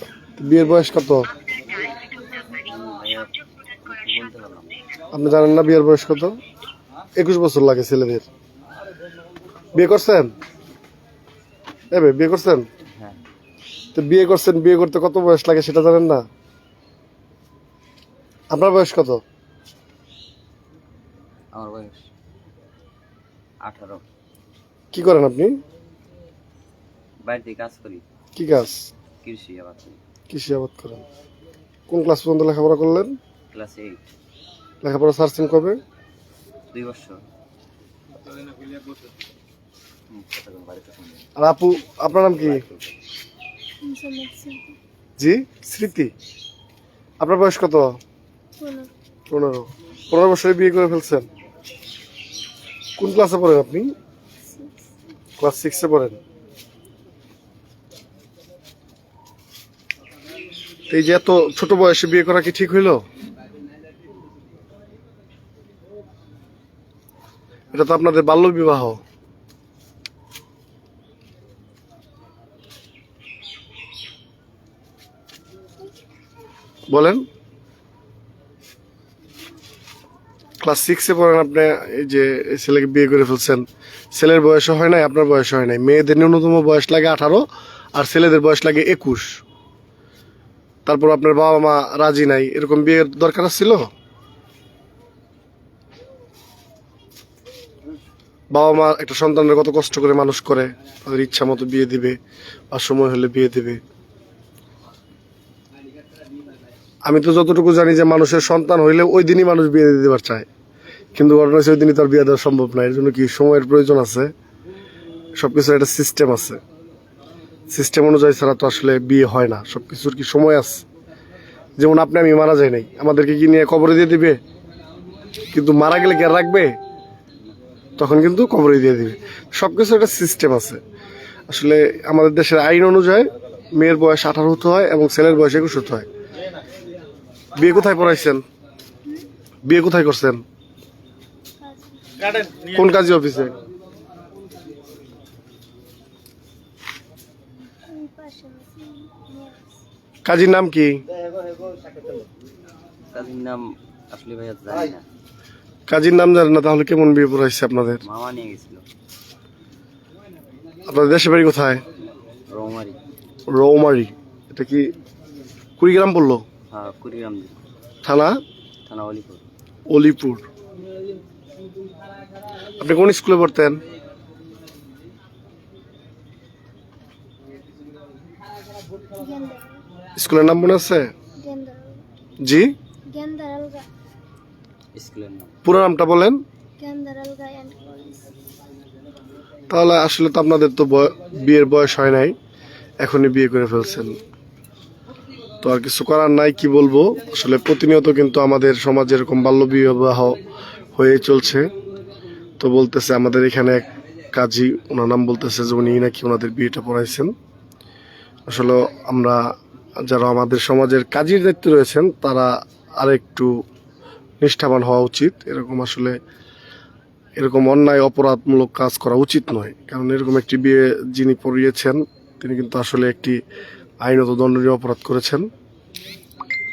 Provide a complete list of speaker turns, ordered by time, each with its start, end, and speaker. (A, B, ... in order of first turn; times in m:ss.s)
0:00.4-0:01.3 A
0:02.2-0:04.8 B
0:05.1-0:06.4 A
0:07.2-0:08.2 A
0:09.8-0:10.3 A
0:11.9-0:12.7 A
0:13.9-0:16.2 A
0:18.5-0:19.2 A
0:21.5-0:22.1 B
0:23.6-0:24.0 B
0:24.9-0:25.6 A
0:27.2-0:28.0 B
0:28.4-0:28.9 A
0:29.2-0:30.0 B
0:30.3-0:31.0 A
0:31.9-0:33.1 A
0:33.5-0:34.0 B
0:34.8-0:35.8 A
0:36.7-0:37.2 B
0:40.1-0:41.3 B
0:41.4-0:42.6 A
0:42.2-0:43.0 B
0:43.8-0:44.8 C
0:45.2-0:46.1 A
0:47.2-0:48.0 A
0:48.6-0:48.9 C
0:49.3-0:51.3 A
0:53.0-0:53.9 A
0:54.4-0:54.9 C
0:55.4-0:56.2 A
1:00.9-1:03.0 A
1:07.7-1:09.0 A
1:16.9-1:17.2 A
1:20.6-1:29.4 A
1:30.9-1:33.9 A
1:38.5-1:42.2 A
1:42.7-1:43.8 A
1:47.1-1:50.5 A
1:51.2-1:54.3 A
1:55.4-1:56.6 A
1:57.7-2:00.8 A
2:01.8-2:04.4 A
2:05.5-2:06.7 A
2:08.0-2:10.8 A
2:11.5-2:16.1 A
2:17.6-2:18.4 A
2:19.7-2:20.4 A
2:21.6-2:22.6 C
2:22.6-2:23.6 A
2:27.7-2:29.8 C
2:30.2-2:31.0 A
2:33.1-2:35.0 B
2:35.9-2:38.0 A
2:38.0-2:38.8 B
2:40.9-2:41.8 A
2:42.5-2:43.0 B
2:43.5-2:44.9 A
2:45.8-2:46.4 A
2:46.7-2:47.6 B
2:48.0-2:48.4 A
2:48.9-2:49.5 B
2:49.9-2:50.5 A
2:52.8-2:53.8 A
2:59.1-2:59.8 C
3:00.2-3:01.1 A
3:01.4-3:02.0 C
3:02.4-3:02.7 A
3:03.1-3:03.9 C
3:05.0-3:05.6 B
3:05.6-3:06.4 A
3:06.8-3:08.2 C
3:09.7-3:12.4 A
3:13.0-3:14.2 A
3:15.6-3:20.4 A
3:21.0-3:21.7 A
3:22.6-3:27.3 A
3:28.5-3:29.4 A
3:30.0-3:33.5 A
3:34.4-3:36.2 A
3:37.4-3:43.4 A
3:44.0-3:45.5 A